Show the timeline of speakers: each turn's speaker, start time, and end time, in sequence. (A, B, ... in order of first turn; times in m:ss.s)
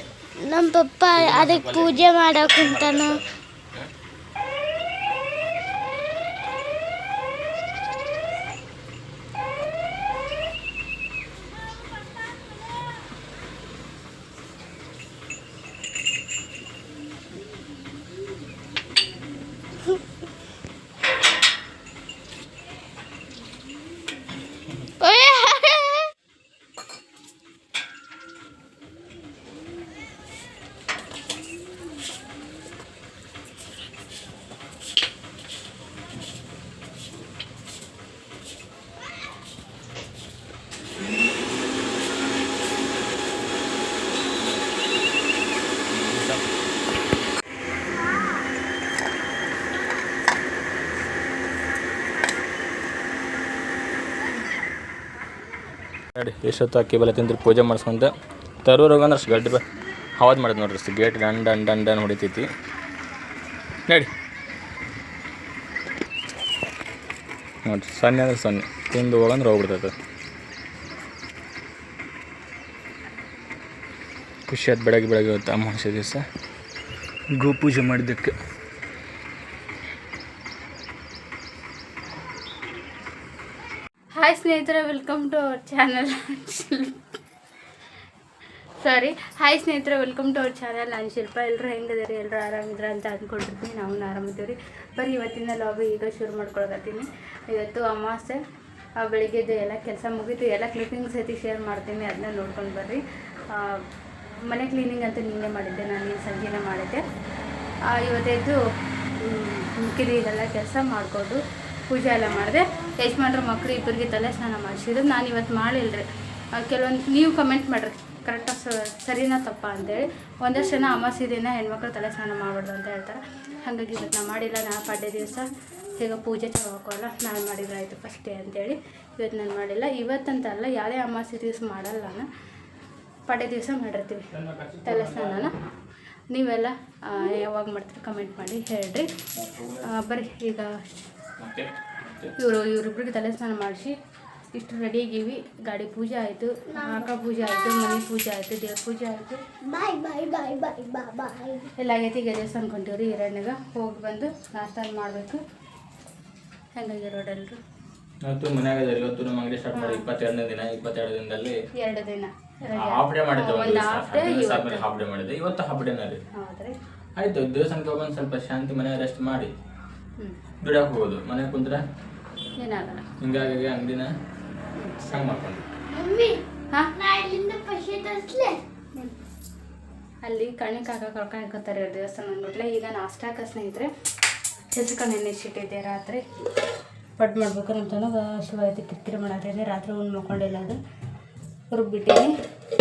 0:00.4-0:03.2 A
0:01.1-0:03.9 B
0:25.0-0:26.1 A
0:46.0-0:46.4 B
0:56.2-0:58.1 B
0:58.6-0:59.6 B
1:00.2-1:02.5 B
1:07.6-1:09.9 B
1:14.5-1:16.2 B
1:17.3-1:18.4 B
1:24.2-1:27.0 C
1:28.8-1:38.4 C
1:39.0-1:43.8 C
1:44.4-1:47.0 C
1:47.9-1:48.6 C
1:49.1-2:12.3 C
2:13.3-2:14.3 C
2:14.5-2:15.0 B
2:14.8-2:15.5 C
2:16.3-2:21.0 C
2:19.4-2:19.9 B
2:21.4-2:22.3 B
2:22.4-2:24.0 C
2:24.5-2:29.4 C
2:29.6-2:31.7 A
2:31.8-2:35.4 C
2:36.8-2:37.6 C
2:38.2-2:41.6 B
2:39.7-2:40.1 C
2:41.8-2:44.9 C
2:42.7-2:46.2 B
2:46.3-2:46.8 C
2:47.2-2:49.5 B
2:50.6-2:51.8 B
2:52.6-2:53.0 C
2:53.2-2:54.1 B
2:54.8-2:55.4 C
2:55.1-2:55.6 B
2:55.9-2:56.4 A
2:57.0-2:58.6 A
3:00.2-3:03.9 C
3:04.7-3:06.2 C
3:07.2-3:10.8 C
3:11.7-3:12.3 C